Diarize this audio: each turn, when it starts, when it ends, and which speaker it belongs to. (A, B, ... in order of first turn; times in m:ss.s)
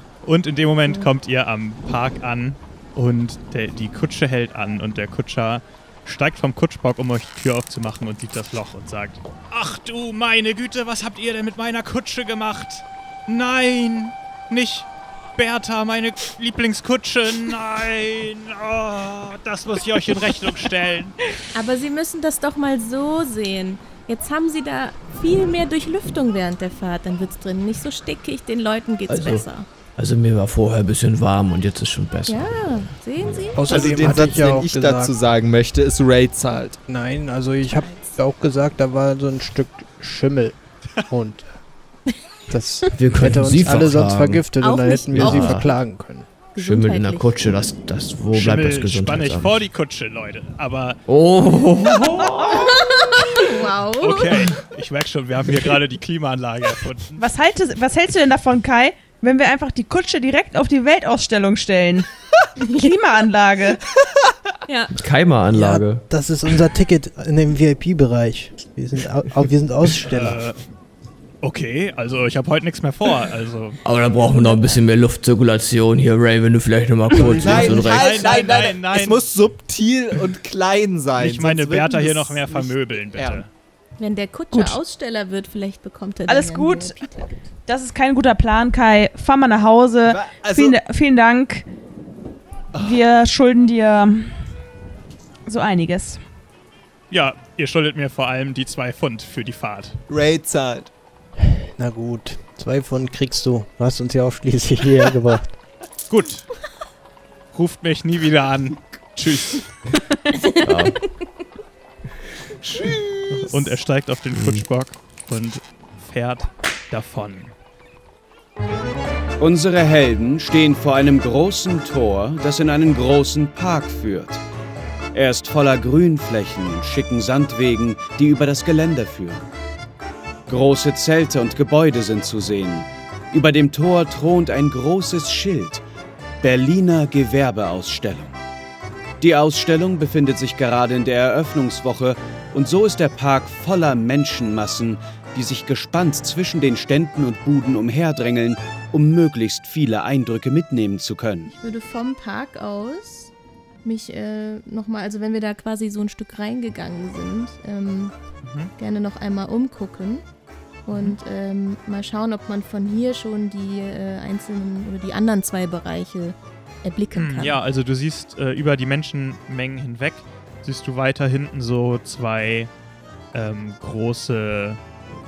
0:00.2-0:21.3 A
0:21.5-0:29.7 B
0:29.1-0:33.7 C
0:32.3-0:34.3 B
0:33.5-0:35.1 D
0:33.7-0:36.8 E
0:36.9-0:41.5 D
0:37.6-0:38.2 B
0:42.5-0:46.3 D
0:42.9-0:44.5 C
0:44.6-0:45.7 B
0:45.1-0:45.7 C
0:46.5-0:47.3 B
0:46.6-0:49.6 C
0:48.3-0:51.0 A
0:51.1-0:53.4 C
0:52.4-0:54.5 B
0:54.0-0:57.2 A
0:57.2-1:02.1 F
1:02.6-1:02.9 B
1:02.7-1:03.8 F
1:04.7-1:04.9 B
1:04.9-1:06.0 C
1:05.5-1:10.4 D
1:10.0-1:10.6 A
1:11.4-1:13.8 A
1:13.8-1:18.4 C
1:14.2-1:14.8 B
1:17.1-1:23.4 E
1:17.4-1:19.2 A
1:21.2-1:23.5 A
1:24.0-1:27.4 B
1:24.5-1:24.8 F
1:26.2-1:27.0 F
1:27.6-1:31.6 F
1:30.0-1:30.8 E
1:32.7-1:33.0 E
1:32.8-1:34.4 F
1:35.4-1:36.2 F
1:37.1-1:40.0 A
1:40.1-1:40.9 E
1:41.4-1:45.5 D
1:46.1-1:46.5 A
1:47.5-1:49.6 A
1:49.9-1:50.5 F
1:50.6-1:51.0 C
1:50.6-1:51.2 B
1:52.7-1:53.7 E
1:53.4-1:57.5 A
1:54.3-1:54.6 C
1:59.4-2:04.4 G
2:05.1-2:09.4 G
2:10.5-2:15.8 G
2:16.4-2:18.3 G
2:19.2-2:31.5 G
2:31.5-2:33.3 B
2:33.8-2:38.1 B
2:38.4-2:38.7 A
2:38.8-2:40.2 B
2:40.8-2:47.6 B
2:40.9-2:41.2 A
2:47.1-2:52.7 A
2:53.3-2:54.8 A